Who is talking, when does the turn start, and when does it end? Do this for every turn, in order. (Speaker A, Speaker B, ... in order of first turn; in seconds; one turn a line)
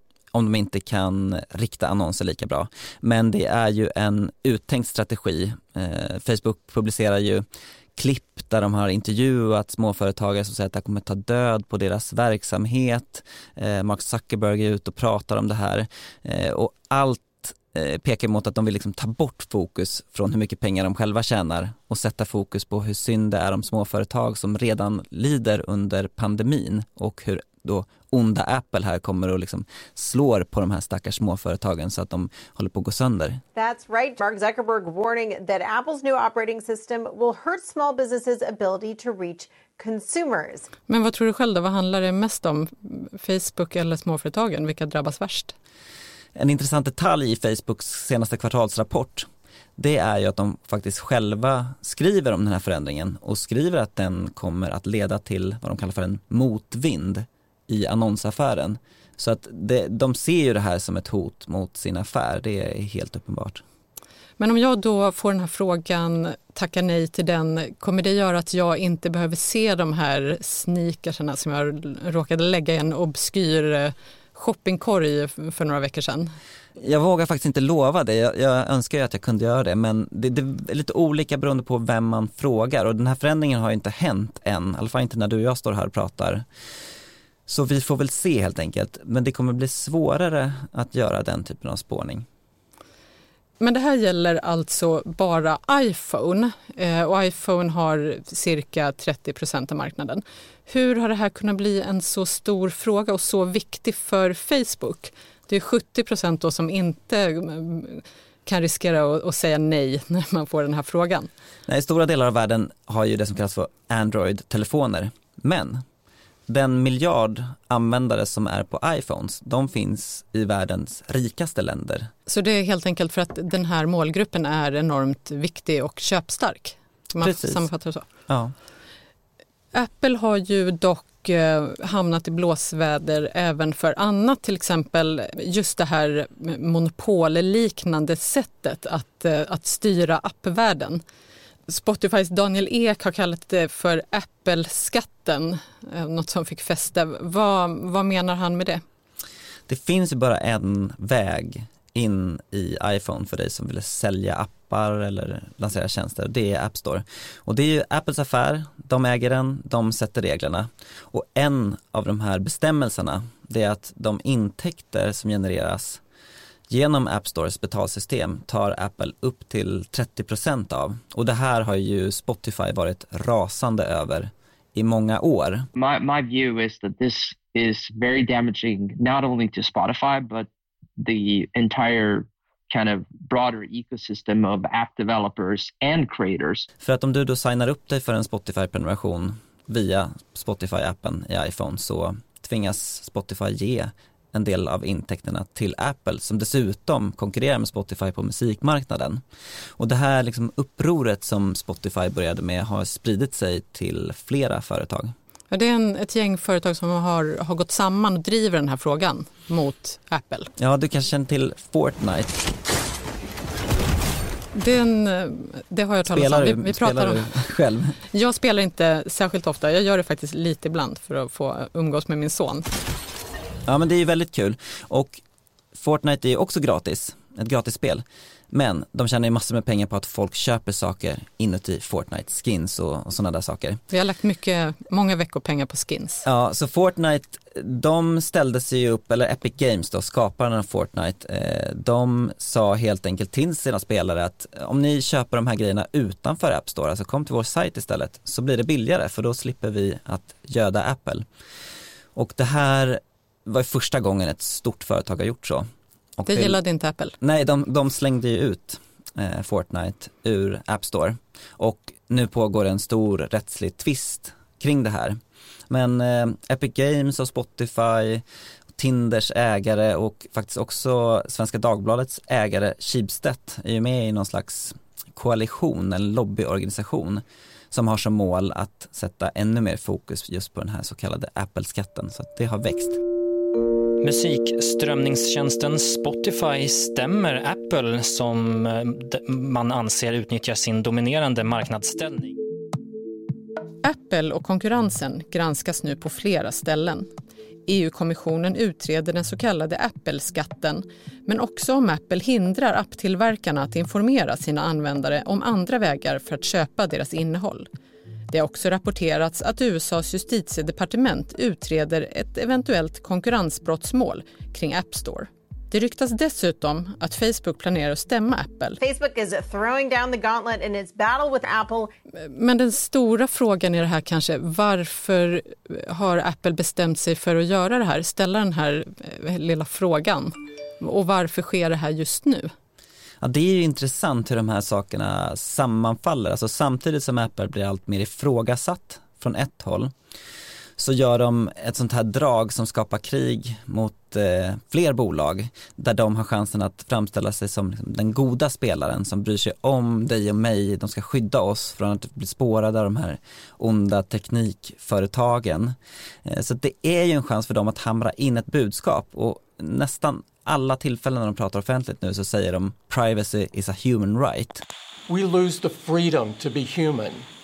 Speaker A: 0.3-33.4
Speaker B: 33.6-40.7
Speaker C: 40.9-45.5
Speaker A: 46.4-63.6
Speaker C: 64.4-76.3
Speaker A: 76.8-86.5
Speaker A: 87.5-92.2
Speaker C: 93.6-111.3
Speaker A: 111.7-115.8
Speaker A: 116.5-122.1
Speaker C: 122.3-128.1
Speaker A: 127.2-127.7
Speaker A: 128.3-128.5
Speaker C: 129.7-141.0
Speaker C: 141.7-148.8
Speaker A: 149.7-166.0
Speaker A: 166.7-175.7
Speaker D: 175.8-186.7
Speaker A: 186.8-199.2
Speaker A: 199.8-205.1
Speaker C: 205.5-210.5
Speaker A: 210.6-212.5
Speaker C: 214.5-217.3
Speaker A: 216.1-218.0
Speaker C: 218.1-222.7
Speaker A: 223.7-225.2
Speaker A: 225.7-233.8
Speaker C: 233.9-236.2
Speaker A: 236.2-251.3
Speaker A: 252.2-255.7
Speaker A: 256.2-256.6
Speaker C: 256.3-257.2
Speaker A: 257.2-265.2
Speaker A: 265.7-268.2
Speaker A: 268.8-283.0
Speaker E: 284.0-292.4
Speaker C: 293.8-297.1
Speaker C: 297.7-307.7
Speaker C: 308.3-318.8
Speaker B: 318.8-321.9
Speaker C: 322.2-332.5
Speaker A: 333.2-339.9
Speaker A: 340.8-364.6
Speaker F: 365.1-367.3